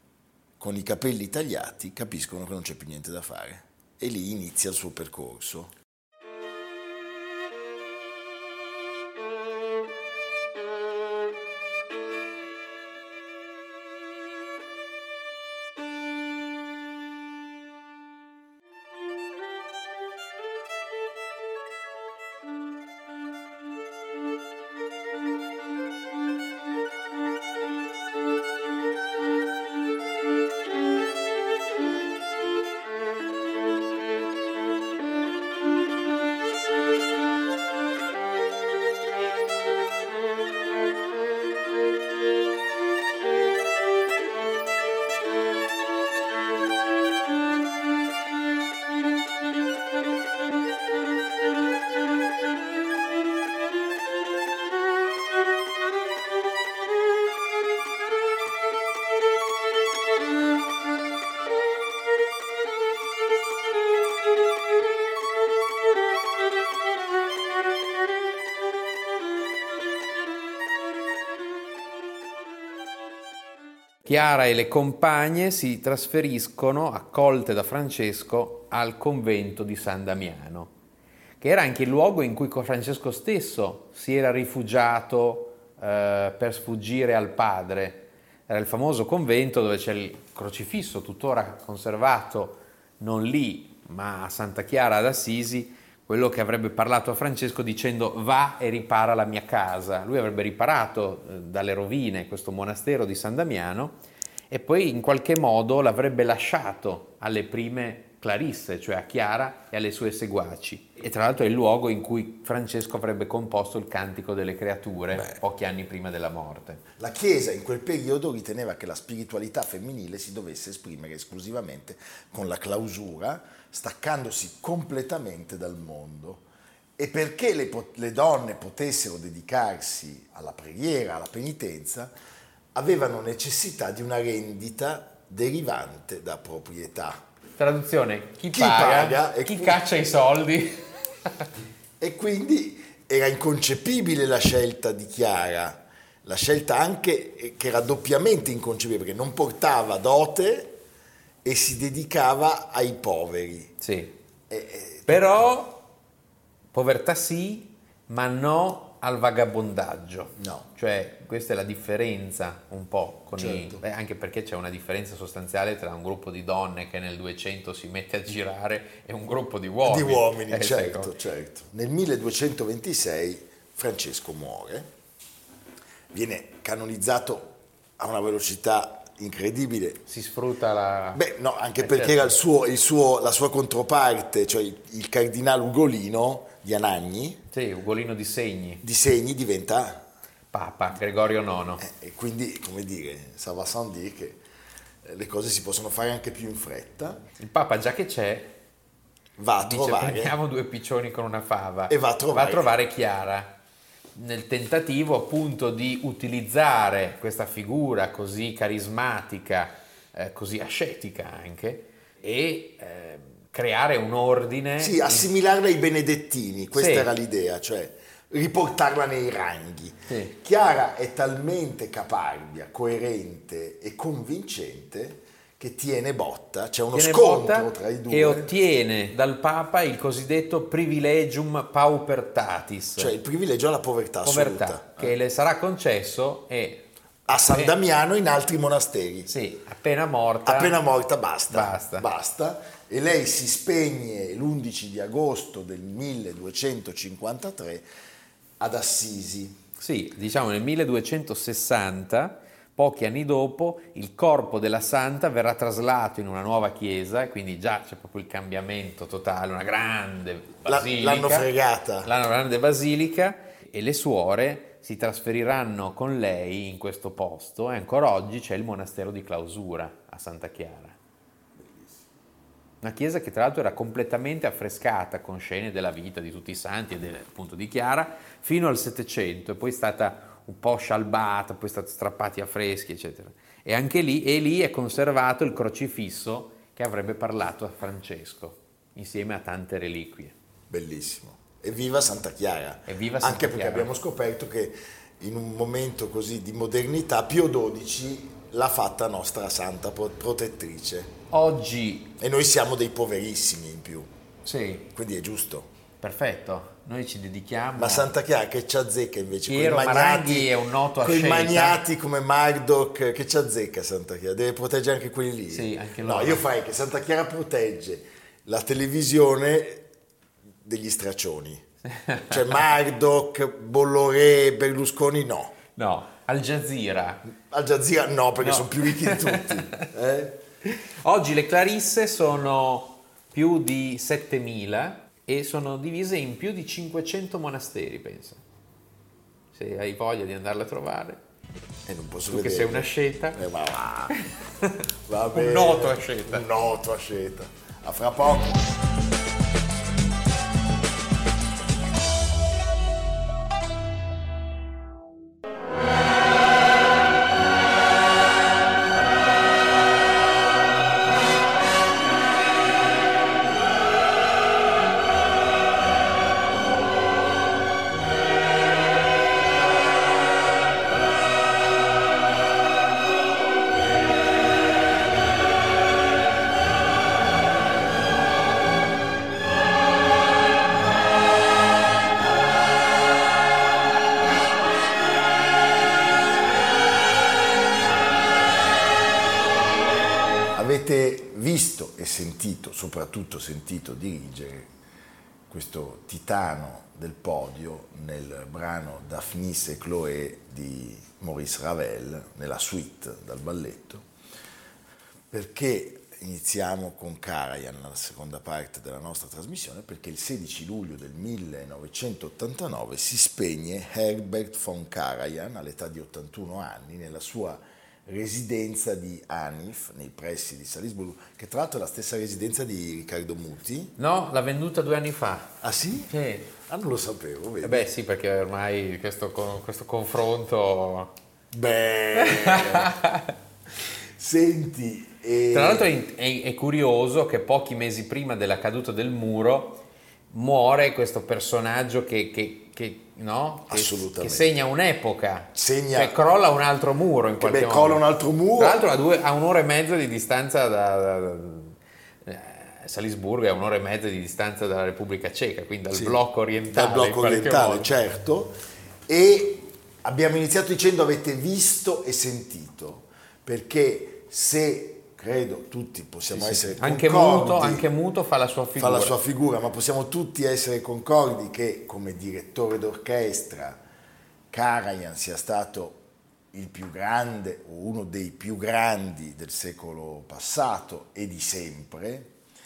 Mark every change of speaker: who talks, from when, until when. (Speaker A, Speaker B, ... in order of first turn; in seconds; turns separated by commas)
Speaker A: 0.6-5.7, Speaker B: 74.0-80.7, Speaker B: 81.4-104.0, Speaker B: 104.5-116.8, Speaker A: 117.0-126.4, Speaker A: 127.0-132.1, Speaker A: 132.7-137.2, Speaker B: 137.6-141.0, Speaker A: 138.5-139.8, Speaker A: 142.0-150.8, Speaker A: 151.4-153.7, Speaker B: 153.8-154.1, Speaker A: 154.5-155.4, Speaker B: 155.1-155.8, Speaker B: 156.7-171.1, Speaker A: 160.4-160.7, Speaker A: 163.4-163.8, Speaker A: 169.8-174.9, Speaker A: 176.1-180.0, Speaker B: 180.1-181.2, Speaker A: 181.1-187.4, Speaker B: 181.8-182.3, Speaker B: 187.5-188.8, Speaker A: 188.8-190.1, Speaker B: 190.5-191.8, Speaker A: 191.8-194.4, Speaker A: 195.0-197.2, Speaker B: 197.4-198.5, Speaker A: 199.4-200.4, Speaker B: 199.6-203.6, Speaker A: 201.9-202.7, Speaker B: 204.1-215.3, Speaker A: 214.8-228.5, Speaker B: 216.7-217.1, Speaker B: 220.1-220.3, Speaker B: 226.9-233.2, Speaker A: 233.0-235.2, Speaker B: 234.2-237.7, Speaker A: 237.3-239.3, Speaker B: 239.3-240.8, Speaker A: 240.4-247.8, Speaker B: 241.5-242.1, Speaker A: 248.6-249.6, Speaker B: 249.8-261.5, Speaker A: 260.6-262.1, Speaker B: 262.0-271.0, Speaker A: 271.6-272.0, Speaker B: 272.8-290.3, Speaker A: 290.7-301.1, Speaker B: 292.9-293.9, Speaker B: 301.3-302.1, Speaker A: 302.2-304.1, Speaker B: 304.4-304.9, Speaker A: 304.9-305.7, Speaker B: 306.0-308.1, Speaker A: 307.8-319.9, Speaker B: 309.5-311.8, Speaker B: 315.5-316.4, Speaker A: 320.6-321.6, Speaker B: 321.9-322.5, Speaker A: 322.3-325.6, Speaker B: 325.7-327.2, Speaker A: 327.4-330.4, Speaker B: 328.4-329.9, Speaker B: 330.6-338.4, Speaker B: 339.5-341.2, Speaker A: 341.9-344.1, Speaker B: 342.3-343.5, Speaker B: 344.1-344.8, Speaker A: 345.1-348.7, Speaker B: 345.3-346.4, Speaker A: 390.5-394.7, Speaker A: 395.5-404.0, Speaker A: 405.3-423.9, Speaker B: 424.0-426.5, Speaker A: 425.6-427.9, Speaker B: 427.6-431.1, Speaker A: 431.5-432.9, Speaker B: 432.1-433.3, Speaker A: 434.2-435.9, Speaker B: 435.5-448.0, Speaker A: 443.7-444.5, Speaker A: 445.5-446.2, Speaker A: 447.4-448.8, Speaker B: 448.6-457.9, Speaker A: 455.9-456.2, Speaker A: 456.7-458.6, Speaker A: 459.1-467.9, Speaker B: 466.3-469.1, Speaker A: 468.8-473.8, Speaker A: 474.5-482.3